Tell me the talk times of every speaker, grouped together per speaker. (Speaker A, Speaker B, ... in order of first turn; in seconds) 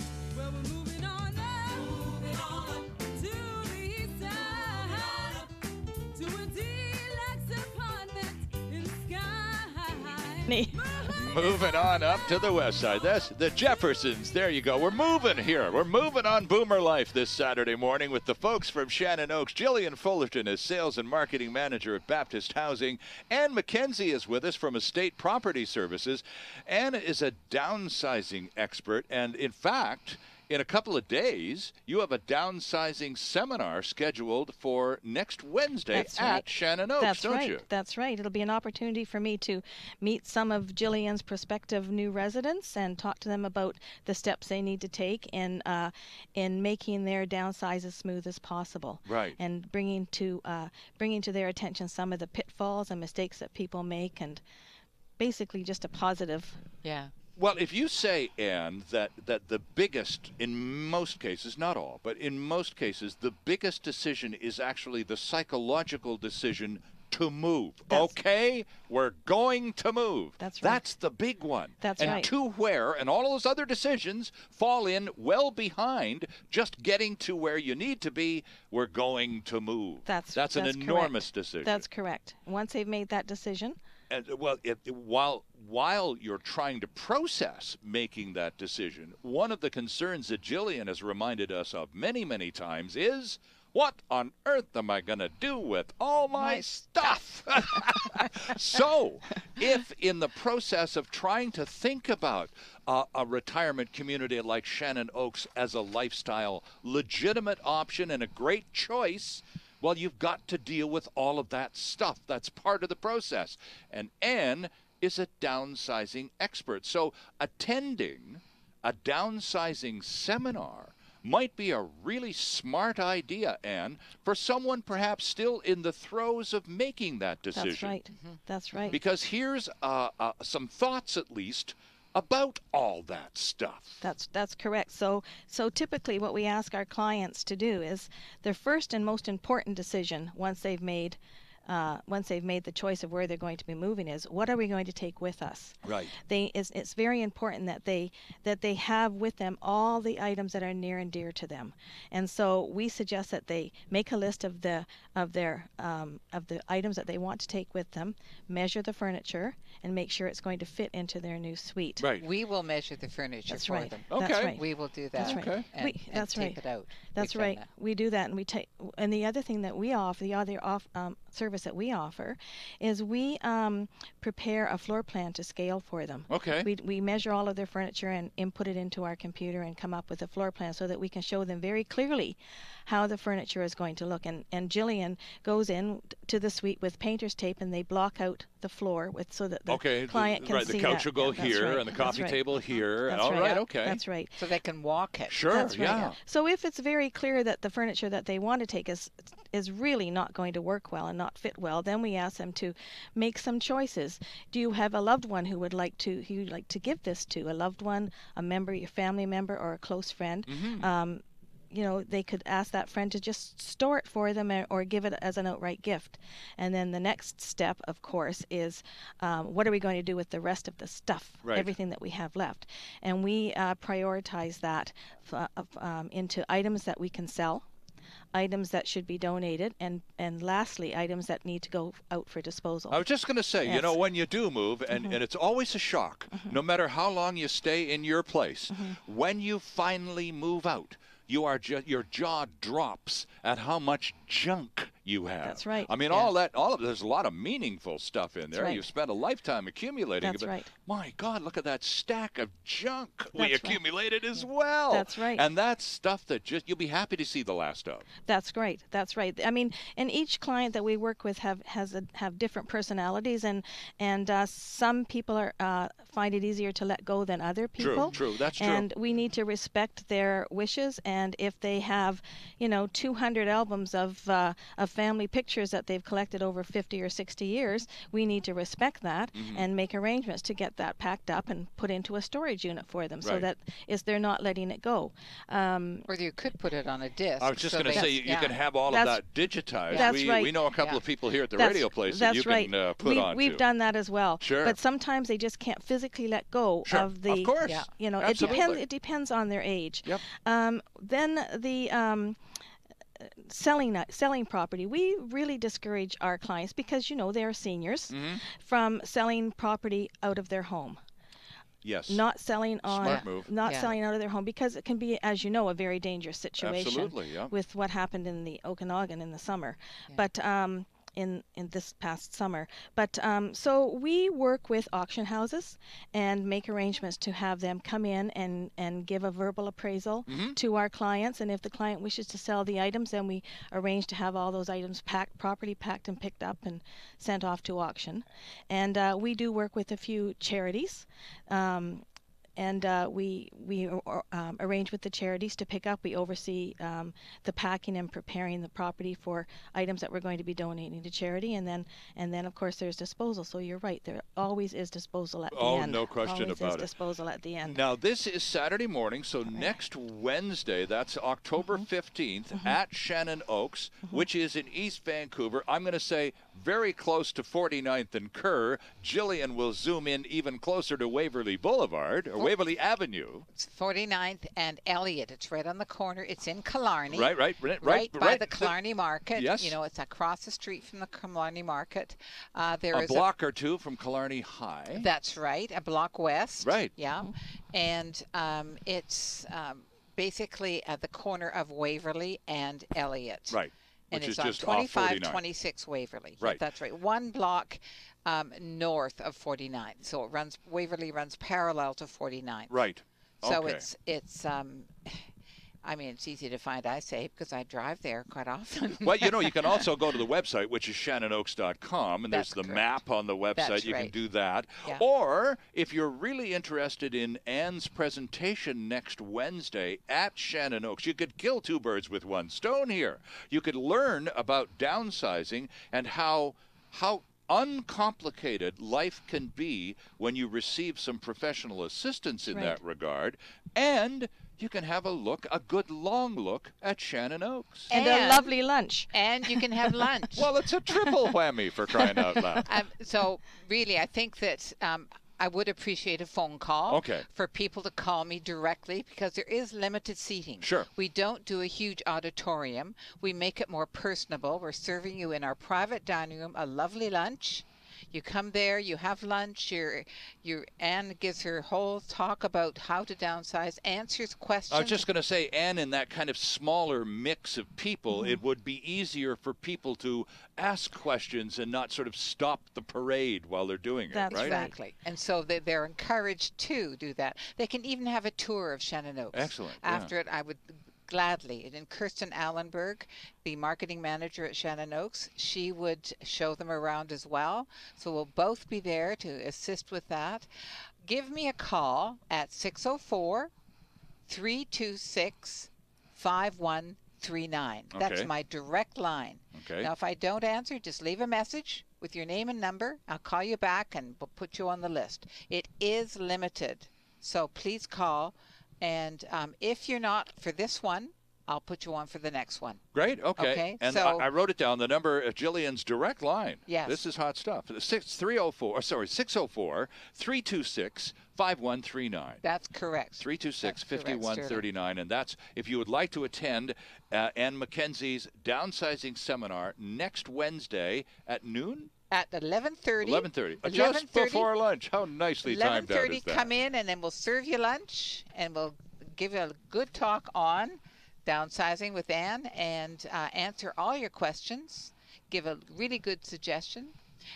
Speaker A: 0.4-5.5, 6.2-11.1
Speaker B: 10.5-10.9, 35.9-36.5, 37.0-54.4, 55.2-56.6, 67.9-68.1, 70.4-70.8, 71.8-72.3, 80.0-83.8, 127.5-129.0, 134.0-162.1, 163.5-164.6, 165.2-166.6, 167.1-192.4, 193.0-194.4, 195.5-227.7, 228.3-233.0, 233.6-234.0, 234.9-235.2, 238.7-239.0, 245.4-245.9, 248.5-248.9, 250.2-250.7, 253.3-253.8, 254.9-255.4, 258.2-286.1, 287.9-289.2, 289.9-290.6, 291.5-302.4, 303.2-311.0, 312.1-342.0, 342.6-357.8, 432.5-432.8, 437.9-439.9, 442.0-442.6, 468.1-468.4, 474.1-474.8
Speaker C: 11.1-37.6, 49.0-49.4, 57.4-81.8, 84.1-128.0, 128.9-134.0, 145.8-146.1, 162.0-162.2, 164.1-164.6, 165.1-165.7, 176.3-176.7, 189.7-194.0, 195.3-196.2, 210.5-210.9, 221.4-221.8, 232.9-258.1, 267.8-268.9, 279.3-279.7, 287.4-293.7, 294.4-294.8, 296.8-298.8, 308.1-308.4, 311.8-312.2, 312.8-313.5, 316.6-317.5, 330.3-330.6, 355.5-356.9, 357.6-373.4, 377.1-378.7, 379.3-379.7, 382.9-385.1, 386.6-386.9, 393.5-395.4, 402.7-403.8, 409.0-437.9, 440.4-442.8, 446.9-447.2, 450.6-450.9, 464.7-474.6, 479.3-480.1, 497.9-498.3, 499.5-499.9, 512.9-522.4, 523.2-531.9, 533.0-536.5
Speaker D: 56.8-57.1, 96.3-97.2, 97.8-98.4, 128.1-129.0, 162.2-167.7, 194.4-195.4, 286.1-288.5, 289.9-290.1, 297.6-298.6, 313.0-314.0, 373.6-383.3, 384.9-402.8, 403.4-405.3, 405.8-409.8, 412.3-413.0, 413.5-414.1, 437.9-438.5, 439.1-440.5, 442.6-465.1, 474.3-490.5, 491.0-493.5, 494.3-512.8, 513.4-514.3, 516.6-517.0, 522.4-524.6, 532.1-534.5, 535.4-547.0